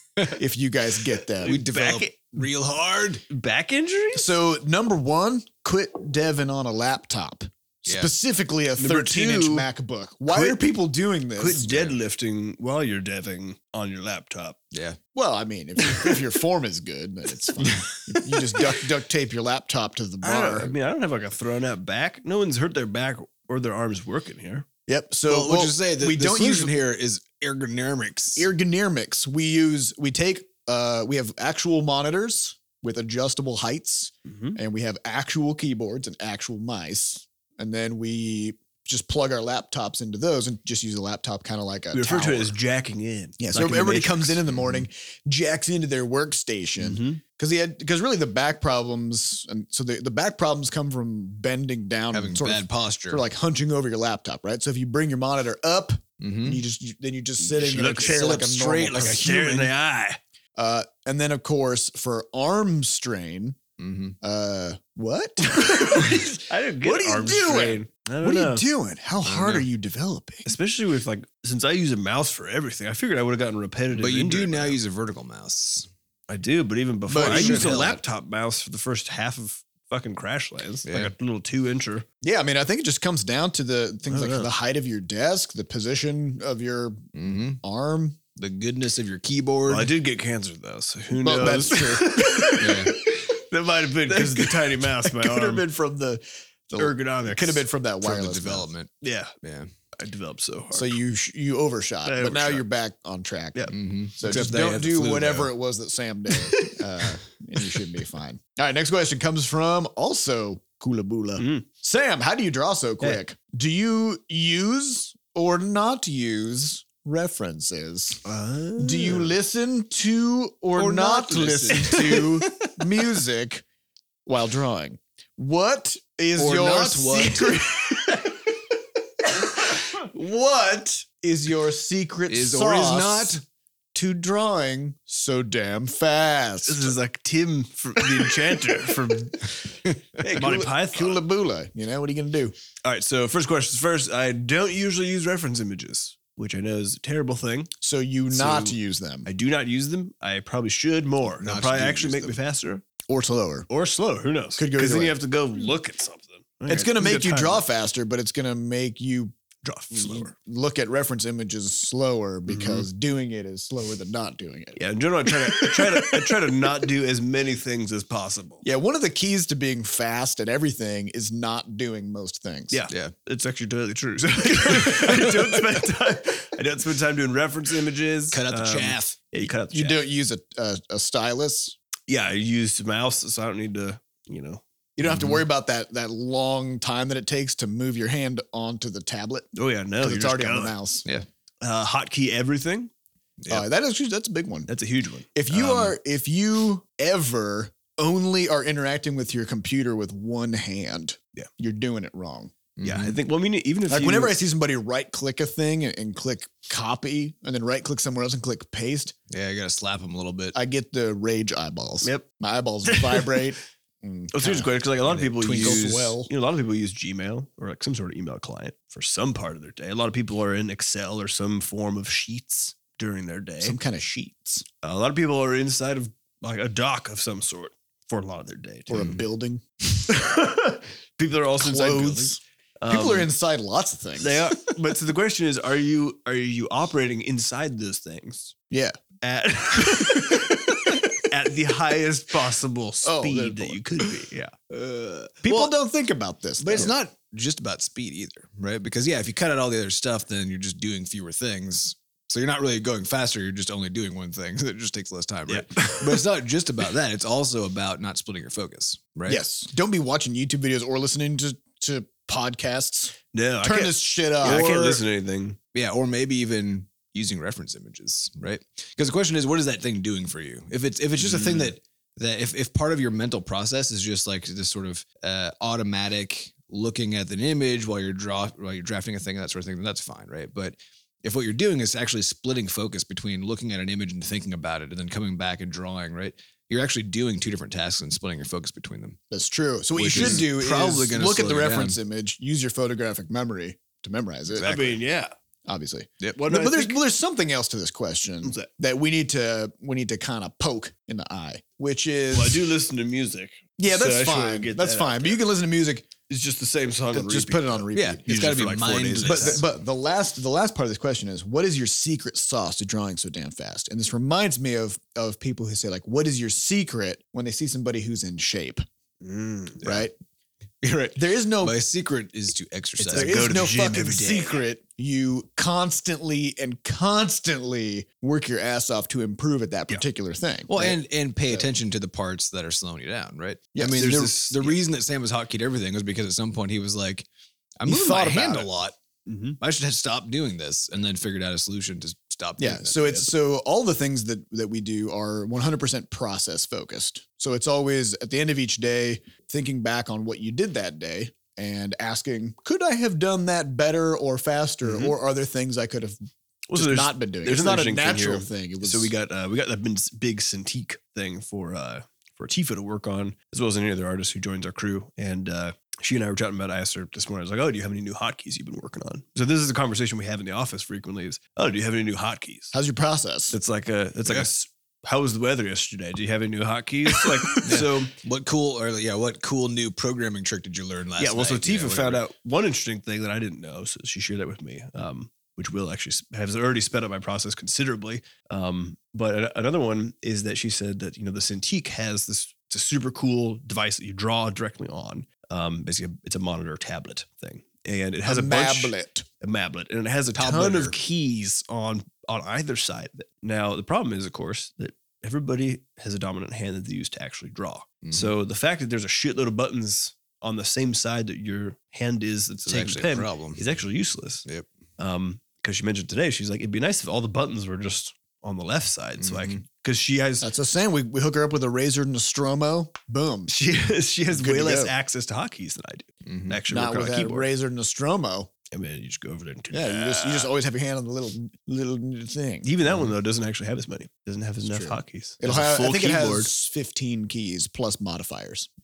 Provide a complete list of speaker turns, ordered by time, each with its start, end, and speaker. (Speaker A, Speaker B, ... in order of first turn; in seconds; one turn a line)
Speaker A: 0.2-1.6
Speaker B: 1.4-2.5
Speaker C: 1.4-3.2
Speaker B: 3.3-4.3
Speaker A: 4.1-11.7
Speaker C: 7.9-8.1
Speaker B: 8.8-9.7
Speaker B: 10.3-10.6
Speaker B: 11.4-14.6
Speaker C: 11.6-11.9
Speaker C: 14.7-15.0
Speaker A: 15.1-20.7
Speaker B: 20.2-24.7
Speaker A: 24.9-26.7
Speaker C: 25.3-28.5
Speaker A: 28.4-42.5
Speaker B: 34.3-34.6
Speaker B: 41.9-44.4
Speaker A: 43.4-59.2
Speaker B: 46.8-47.2
Speaker C: 52.1-53.2
Speaker C: 56.2-56.6
Speaker B: 57.4-60.2
Speaker C: 58.1-59.7
Speaker A: 60.6-63.6
Speaker C: 63.8-64.2
Speaker A: 64.2-70.5
Speaker B: 65.5-68.7
Speaker C: 69.3-69.6
Speaker B: 70.5-74.8
Speaker C: 73.9-75.9
Speaker B: 76.3-82.0
Speaker A: 77.1-78.0
Speaker C: 77.2-78.0
Speaker C: 80.9-81.1
Speaker A: 82.2-87.1
Speaker B: 84.1-84.5
Speaker C: 87.1-87.6
Speaker A: 87.6-88.2
Speaker C: 88.4-89.9
Speaker B: 89.7-95.6
Speaker A: 91.2-92.6
Speaker C: 92.6-93.0
Speaker A: 93.8-98.7
Speaker B: 96.8-97.7
Speaker C: 98.0-99.7
Speaker B: 99.0-99.3
Speaker B: 100.0-101.0
Speaker A: 100.7-118.2
Speaker B: 102.0-102.6
Speaker C: 103.7-105.5
Speaker B: 111.4-111.7
Speaker B: 118.2-119.3
Speaker A: 118.8-123.6
Speaker C: 120.8-122.8
Speaker B: 121.7-122.2
Speaker A: 124.3-128.3
Speaker C: 126.4-127.8
Speaker A: 129.5-133.4
Speaker C: 132.3-133.4
Speaker A: 133.9-136.9
Speaker B: 136.7-139.6
Speaker A: 138.0-139.0
Speaker A: 140.2-142.6
Speaker B: 140.2-141.2
Speaker C: 140.4-140.6
Speaker B: 142.8-147.7
Speaker A: 147.8-149.3
Speaker B: 148.3-152.8
Speaker C: 151.4-152.4
Speaker A: 153.1-153.7
Speaker B: 153.7-157.7
Speaker A: 154.6-155.2
Speaker A: 156.7-159.3
Speaker B: 159.6-160.3
Speaker A: 159.9-166.3
Speaker B: 162.5-162.8
Speaker B: 164.8-168.6
Speaker A: 168.6-172.8
Speaker B: 172.7-180.0
Speaker C: 175.0-175.5
Speaker C: 178.3-179.3
Speaker A: 179.7-181.8
Speaker B: 182.1-184.6
Speaker A: 185.0-189.5
Speaker C: 185.1-185.4
Speaker B: 189.6-190.8
Speaker A: 190.0-191.1
Speaker B: 191.6-192.9
Speaker A: 193.5-194.7
Speaker B: 194.7-195.8
Speaker A: 195.3-202.5
Speaker C: 195.6-195.8
Speaker C: 202.8-203.2
Speaker B: 202.8-204.4
Speaker A: 203.9-209.2
Speaker C: 209.3-210.6
Speaker A: 210.5-214.7
Speaker B: 212.9-213.5
Speaker B: 214.3-223.8
Speaker C: 215.1-215.9
Speaker A: 215.4-216.3
Speaker A: 223.6-224.7
Speaker B: 224.8-229.1
Speaker A: 228.9-229.6
Speaker C: 228.9-229.2
Speaker B: 230.1-233.3
Speaker A: 231.6-234.5
Speaker B: 234.2-238.5
Speaker A: 238.7-239.0
Speaker B: 239.2-244.6
Speaker A: 239.9-240.9
Speaker A: 243.0-243.8
Speaker C: 244.7-245.7
Speaker A: 245.4-246.9
Speaker C: 246.6-259.4
Speaker B: 255.5-256.2
Speaker A: 259.3-265.0
Speaker B: 263.3-265.6
Speaker C: 265.7-289.2
Speaker B: 271.3-271.7
Speaker A: 289.3-295.0
Speaker C: 290.0-292.0
Speaker B: 290.1-290.5
Speaker B: 294.6-295.3
Speaker A: 295.7-302.7
Speaker B: 296.3-297.0
Speaker B: 298.4-298.7
Speaker B: 302.3-305.4
Speaker A: 303.8-306.1
Speaker B: 306.3-309.7
Speaker A: 307.1-308.3
Speaker C: 307.9-309.7
Speaker A: 309.2-318.8
Speaker B: 319.2-320.0
Speaker A: 319.8-320.1
Speaker A: 320.9-321.8
Speaker C: 321.6-323.7
Speaker B: 323.0-324.6
Speaker A: 323.1-331.7
Speaker C: 330.7-337.3
Speaker A: 333.7-334.2
Speaker B: 334.0-334.8
Speaker C: 337.8-339.0
Speaker A: 337.9-338.7
Speaker B: 339.3-339.6
Speaker C: 339.6-343.2
Speaker A: 342.6-356.2
Speaker B: 354.9-355.1
Speaker B: 356.7-372.7
Speaker A: 356.7-359.1
Speaker A: 372.7-373.6
Speaker B: 373.5-378.1
Speaker A: 377.2-377.7
Speaker C: 377.6-382.2
Speaker B: 381.2-414.4
Speaker A: 398.2-399.2
Speaker C: 400.4-401.0
Speaker C: 408.0-408.3
Speaker C: 412.7-413.6
Speaker B: 415.0-420.5
Speaker C: 419.2-419.6
Speaker A: 420.4-423.5
Speaker B: 423.5-427.5
Speaker A: 424.3-424.9
Speaker C: 426.3-426.6
Speaker A: 426.7-428.5
Speaker B: 428.7-430.5
Speaker A: 429.7-432.7
Speaker B: 432.6-436.5
Speaker A: 434.6-438.7